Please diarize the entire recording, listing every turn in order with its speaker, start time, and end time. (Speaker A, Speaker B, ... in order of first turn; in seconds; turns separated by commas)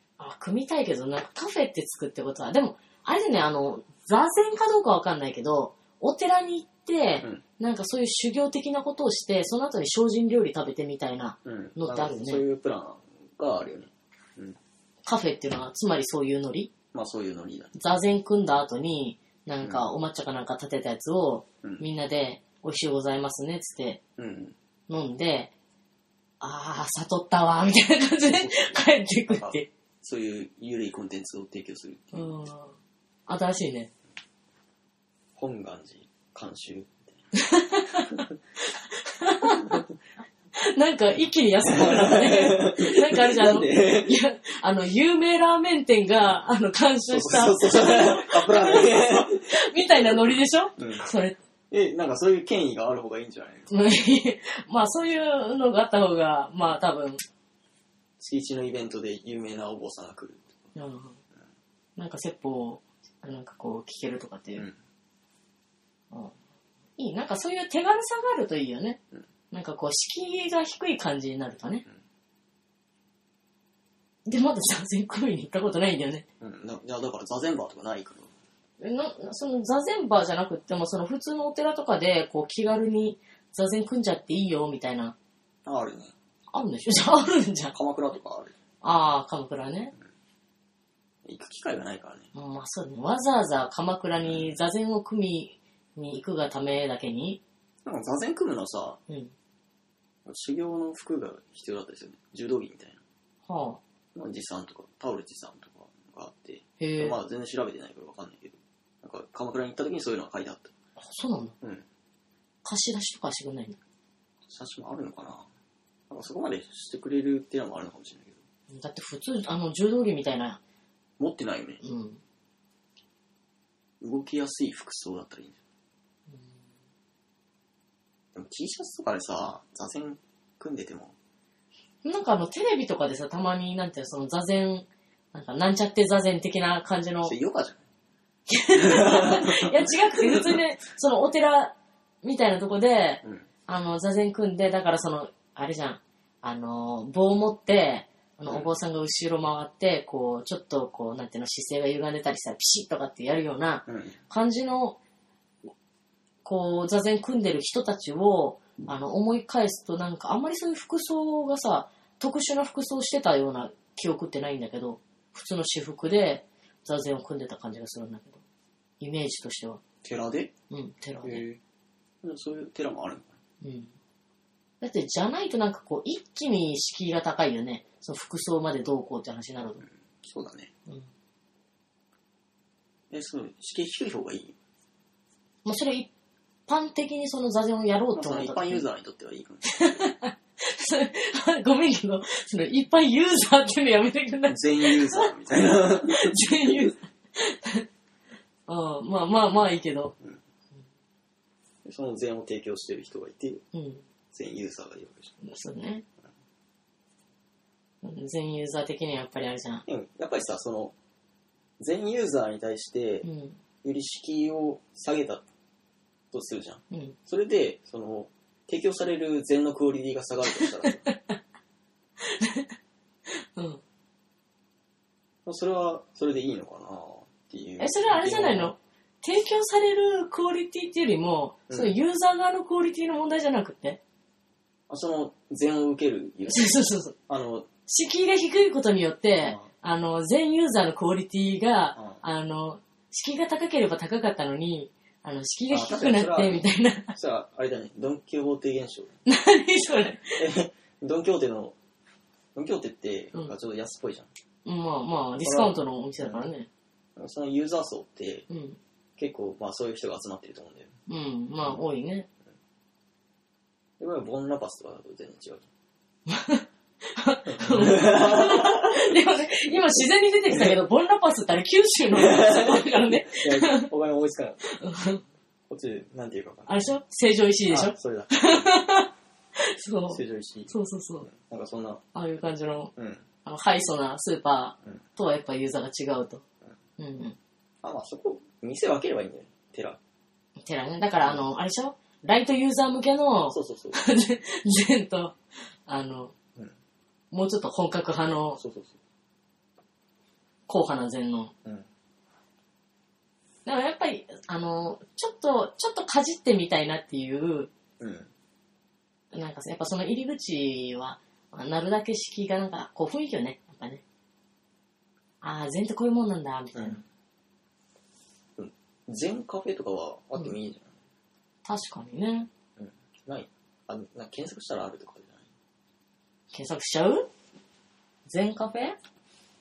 Speaker A: 0.2-12.4, Speaker B: 11.4-14.6, Speaker A: 15.0-16.7, Speaker B: 16.9-17.8, Speaker A: 17.7-24.0, Speaker B: 19.6-19.9, Speaker B: 24.2-24.6, Speaker A: 24.9-25.5, Speaker A: 26.4-29.7, Speaker B: 28.2-32.4, Speaker A: 32.1-32.8, Speaker A: 33.3-33.9, Speaker B: 35.4-37.2, Speaker A: 37.4-39.8, Speaker A: 40.6-51.4, Speaker B: 41.6-44.1, Speaker B: 47.1-51.1, Speaker B: 51.7-53.7, Speaker A: 53.7-57.2, Speaker B: 58.2-60.6, Speaker A: 60.7-61.2, Speaker A: 62.0-64.7, Speaker A: 67.0-69.0, Speaker A: 69.5-71.8, Speaker A: 74.2-76.2, Speaker B: 76.4-78.3, Speaker A: 78.8-85.2, Speaker B: 85.7-86.1, Speaker A: 86.5-87.7, Speaker B: 87.7-88.5, Speaker A: 88.8-89.9, Speaker B: 91.2-92.3, Speaker A: 92.3-97.4, Speaker B: 94.2-94.5, Speaker B: 97.8-99.0, Speaker B: 100.2-103.0, Speaker A: 103.4-103.8, Speaker B: 104.1-110.7, Speaker A: 106.8-107.2, Speaker A: 111.0-111.5, Speaker A: 112.6-113.8, Speaker B: 114.5-115.5, Speaker B: 116.1-118.4, Speaker A: 118.7-120.6, Speaker B: 121.2-121.8, Speaker A: 121.8-122.2, Speaker B: 124.0-125.6, Speaker A: 126.3-126.6, Speaker B: 128.3-131.1, Speaker A: 132.0-137.3, Speaker B: 137.2-137.8, Speaker A: 138.5-155.0, Speaker B: 138.7-140.6, Speaker B: 148.5-148.7, Speaker B: 153.9-154.2, Speaker A: 156.4-168.4, Speaker A: 169.0-169.8, Speaker B: 170.0-170.5, Speaker A: 170.7-171.4, Speaker B: 171.2-171.6, Speaker B: 172.2-173.3, Speaker A: 173.6-173.9, Speaker A: 174.8-179.8, Speaker B: 180.2-180.7, Speaker B: 183.1-184.6, Speaker A: 185.6-186.1, Speaker A: 186.7-188.9, Speaker B: 188.1-190.0, Speaker A: 189.7-197.8, Speaker B: 194.5-196.8, Speaker A: 198.7-200.1, Speaker B: 201.8-203.6, Speaker A: 203.7-204.0, Speaker B: 204.3-205.3, Speaker A: 205.4-206.0, Speaker A: 208.0-209.8, Speaker B: 209.9-210.9, Speaker B: 211.8-213.3, Speaker A: 213.2-213.6, Speaker B: 213.8-215.4, Speaker B: 216.3-221.0, Speaker A: 216.9-217.2, Speaker A: 220.8-221.3, Speaker A: 222.2-222.7, Speaker A: 223.6-223.8, Speaker B: 225.4-228.7, Speaker A: 227.8-234.0, Speaker B: 231.7-232.0, Speaker B: 234.9-237.7, Speaker A: 236.5-237.2, Speaker A: 237.8-247.1, Speaker B: 239.4-239.7, Speaker B: 245.7-249.1, Speaker A: 249.2-250.4, Speaker B: 250.3-251.8, Speaker B: 252.5-254.3, Speaker A: 254.6-256.7, Speaker B: 255.4-256.5, Speaker B: 257.2-258.4, Speaker A: 258.5-258.8, Speaker B: 259.2-260.9, Speaker A: 261.1-262.3, Speaker B: 264.0-265.7, Speaker A: 266.3-266.6, Speaker A: 267.2-273.9, Speaker B: 267.5-269.0, Speaker B: 270.5-270.8, Speaker B: 272.1-274.7, Speaker A: 274.6-275.2, Speaker B: 275.7-276.9, Speaker A: 276.7-281.3, Speaker B: 277.7-278.7, Speaker B: 280.1-280.7, Speaker B: 281.2-282.0, Speaker A: 282.1-282.9, Speaker B: 283.0-283.2, Speaker A: 283.4-286.4, Speaker A: 287.0-287.4, Speaker B: 287.8-290.0, Speaker A: 290.6-296.3, Speaker B: 293.5-294.0, Speaker A: 297.3-298.6, Speaker B: 298.6-299.0, Speaker A: 300.7-301.5, Speaker A: 303.6-307.7, Speaker B: 308.0-308.3, Speaker A: 309.3-314.0, Speaker A: 315.4-317.0, Speaker B: 316.7-317.0, Speaker B: 318.6-320.9, Speaker A: 321.6-322.5, Speaker B: 322.8-325.5, Speaker A: 326.5-327.3, Speaker A: 328.2-329.0